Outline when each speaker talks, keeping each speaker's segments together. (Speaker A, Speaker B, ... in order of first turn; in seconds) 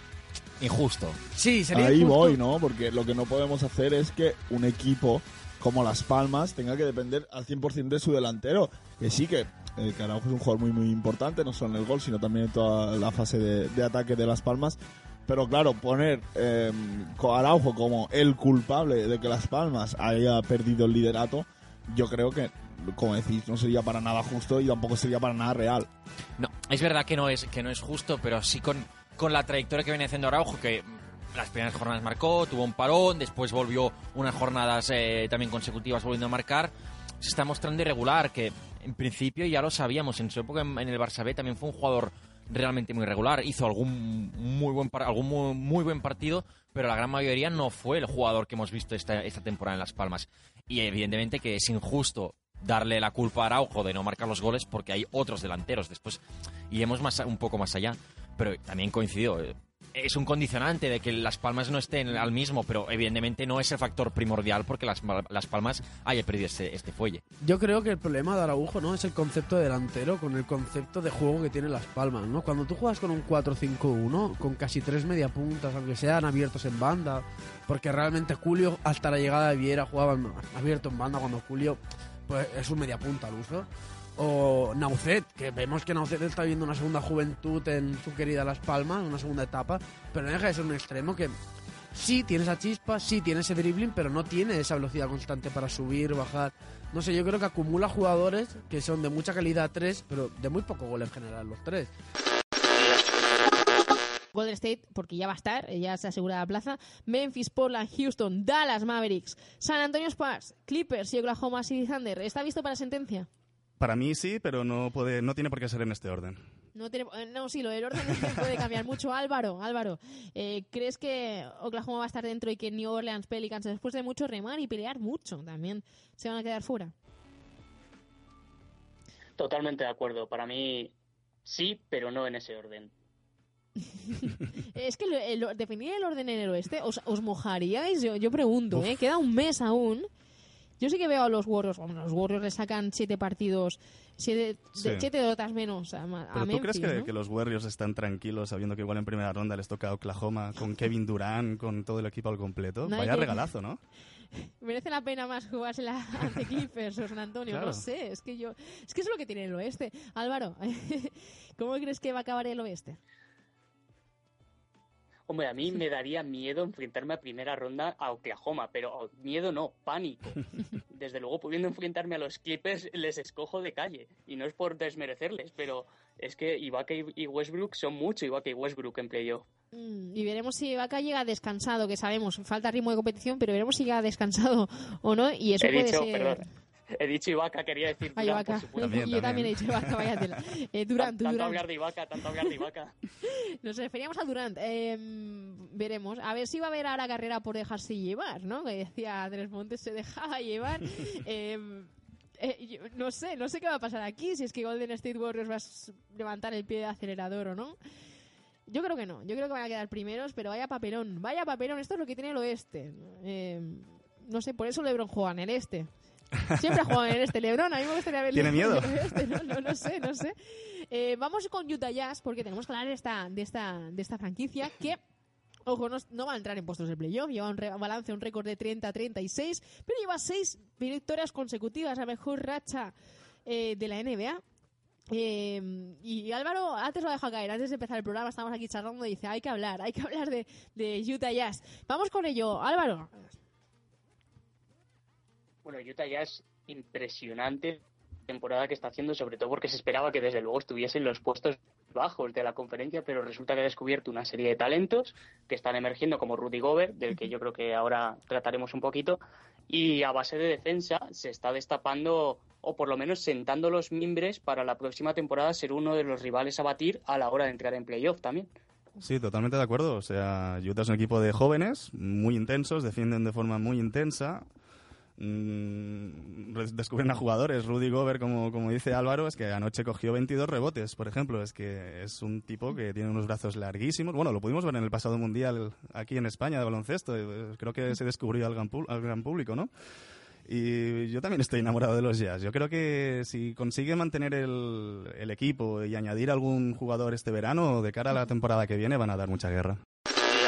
Speaker A: 0.6-1.2, 26.4-67.2
Speaker B: 1.3-2.4, 67.4-91.4, 91.9-101.9
Speaker C: 1.7-25.9
Speaker D: 104.3-113.3, 116.7-126.9, 134.1-140.1, 140.8-147.1, 152.8-153.5, 154.3-163.0, 179.7-186.4, 188.2-191.6, 193.5-207.8, 208.7-215.9, 216.5-225.0, 225.7-232.9, 233.4-234.4, 235.1-243.2
Speaker E: 113.8-116.4, 144.8-145.1, 146.3-153.8, 157.5-157.8, 188.8-190.2, 216.7-217.0, 218.3-219.7, 269.0-274.5, 275.2-289.7, 290.4-299.8
Speaker F: 129.4-130.9, 131.4-132.9, 165.3-179.5, 185.6-186.4, 186.9-189.2, 190.9-192.9, 245.6-268.5